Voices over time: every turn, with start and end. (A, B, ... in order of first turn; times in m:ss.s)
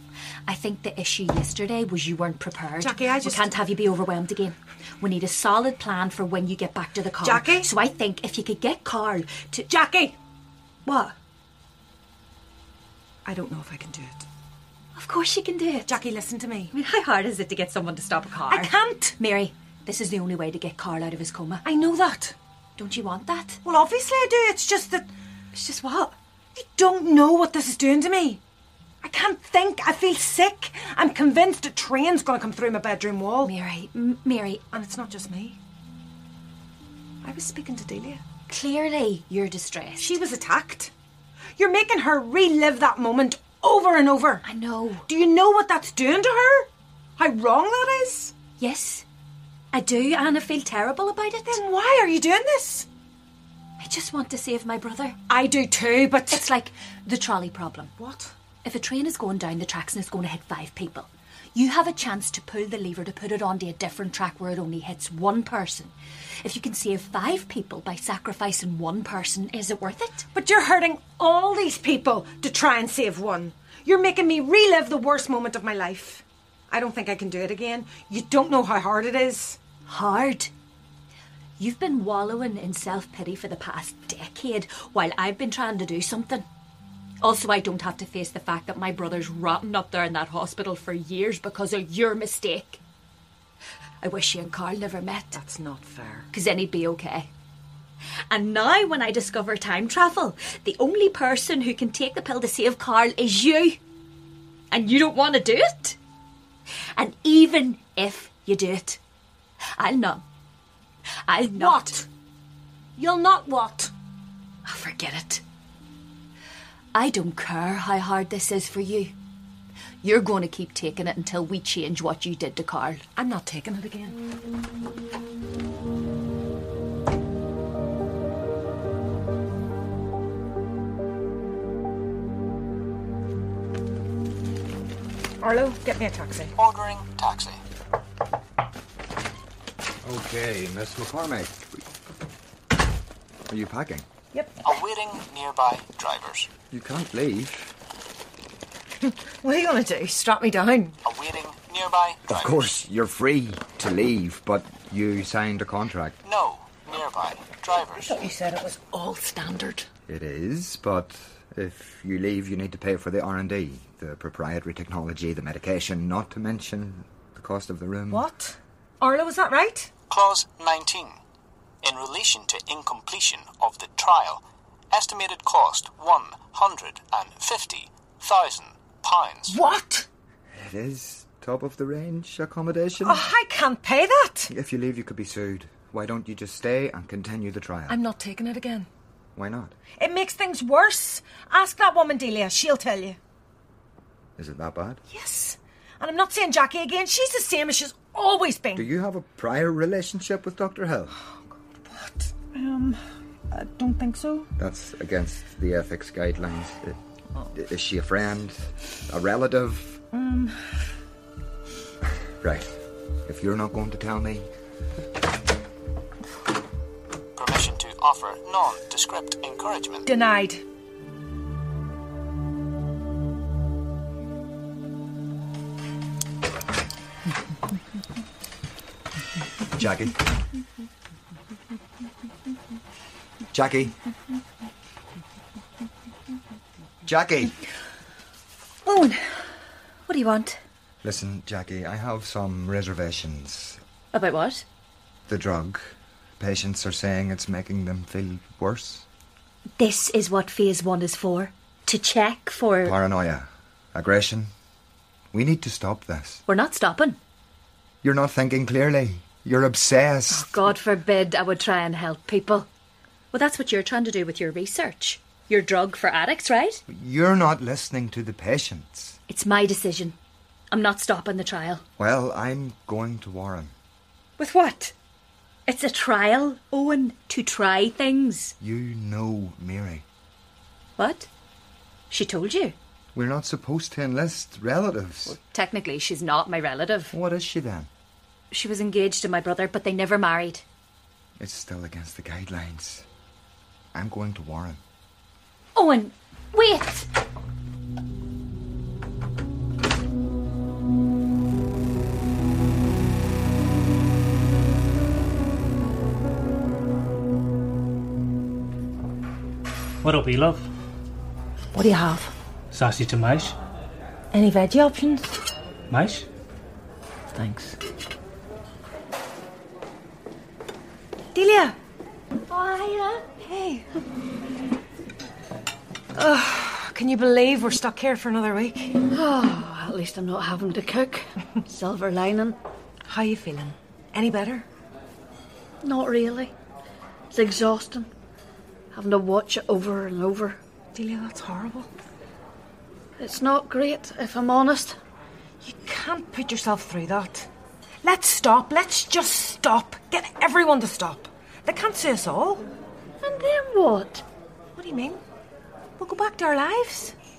0:00.4-0:09.7 A
0:02.8-0:03.6 B
0:07.2-0:07.7 B
0:09.7-0:10.2 B
0:10.8-0:11.1 B
0:13.2-0:14.2 B
0:14.9-0:16.0 A
0:15.8-0:16.7 B
0:16.7-0:21.6 A
0:18.5-0:19.2 B
0:21.6-0:22.4 B
0:22.8-0:23.6 A
0:23.6-0:28.4 B
0:29.0-0:33.5 B
0:33.4-0:34.7 A
0:34.7-0:35.6 B
0:37.2-0:38.2 B
0:38.5-0:40.2 A
0:40.0-0:40.9 B
0:41.6-0:44.4 B
0:44.4-0:45.1 A
0:45.1-0:48.4 B
0:48.6-0:49.0 A
0:49.7-0:51.6 A
0:51.5-0:52.9 B
0:53.8-0:55.3 A
0:55.3-0:56.4 B
0:56.3-0:57.9 A
0:58.0-0:58.3 B
0:58.6-1:10.2 A
1:10.3-1:19.6 B
1:19.9-1:20.5 A
1:21.6-1:26.4 A
1:27.2-1:32.8 A
1:34.0-1:35.4 A
1:35.3-1:36.3 B
1:36.3-1:37.3 A
1:38.3-1:43.8 A
1:44.7-1:46.0 A
1:47.0-1:49.0 A
1:49.8-1:50.2 A
1:51.3-1:52.0 A
1:51.5-1:52.0 B
1:53.0-1:53.9 B
1:54.6-1:55.4 A
1:56.9-1:59.1 A
2:00.0-2:03.0 A
2:03.2-2:04.2 B
2:15.4-2:16.5 B
2:16.6-2:17.6 C
2:20.0-2:21.8 D
2:23.5-2:24.0 D
2:24.3-2:24.6 B
2:24.6-2:26.5 C
2:26.7-2:27.7 D
2:29.0-2:31.0 B
2:31.0-2:32.7 C
2:32.3-2:36.2 D
2:36.2-2:38.2 C
2:37.9-2:39.9 B
2:40.1-2:48.3 D
2:48.1-2:49.9 B
2:50.1-2:51.2 C
2:51.8-2:59.6 C
2:59.5-3:00.1 B
3:00.5-3:03.2 D
3:03.0-3:04.5 B
3:04.5-3:08.0 D
3:07.9-3:08.9 B
3:09.3-3:09.8 D
3:10.0-3:13.2 B
3:14.4-3:15.0 D
3:15.1-3:18.9 B
3:18.7-3:21.2 D
3:21.8-3:24.5 B
3:24.6-3:27.0 D
3:27.5-3:30.0 D
3:30.1-3:30.6 B
3:32.4-3:34.5 D
3:37.4-3:40.1 C
3:40.0-3:40.6 B
3:49.8-3:50.2 D
3:53.5-3:54.0 D
3:57.0-3:57.6 D
4:00.1-4:00.6 A
4:01.0-4:03.8 D
4:04.1-4:04.6 A
4:05.3-4:09.0 D
4:09.8-4:12.9 A
4:12.8-4:14.5 D
4:15.3-4:16.4 D
4:16.5-4:17.2 A
4:18.0-4:20.6 D
4:20.3-4:22.7 A
4:23.3-4:26.8 A
4:26.9-4:29.2 D
4:29.3-4:30.2 A
4:30.7-4:31.8 A
4:32.0-4:33.7 D
4:34.4-4:34.9 B
4:35.7-4:38.5 A
4:38.6-4:40.0 D
4:41.0-4:41.3 A
4:42.1-4:42.8 A
4:43.1-4:45.4 D
4:45.3-4:47.1 A
4:47.1-4:47.9 D
4:48.5-4:50.6 A
4:51.4-4:53.0 D
4:53.9-4:54.8 D
4:55.7-4:57.1 A
5:10.0-5:10.7 E
5:11.7-5:12.3 B
5:12.7-5:13.6 E
5:14.3-5:15.4 B
5:15.9-5:16.3 E
5:17.3-5:17.8 B
5:21.3-5:21.8 B
5:22.5-5:23.9 B
5:26.1-5:29.0 B
5:29.1-5:32.6 F
5:33.0-5:34.6 B
5:35.8-5:36.5 F
5:37.3-5:38.1 F
5:38.9-5:40.6 F
5:40.9-5:41.9 B
5:43.2-5:45.0 F
5:45.6-5:47.5 B
5:48.0-5:52.7 B
5:53.2-5:54.2 F
5:54.7-5:55.2 B
5:56.0-5:57.1 B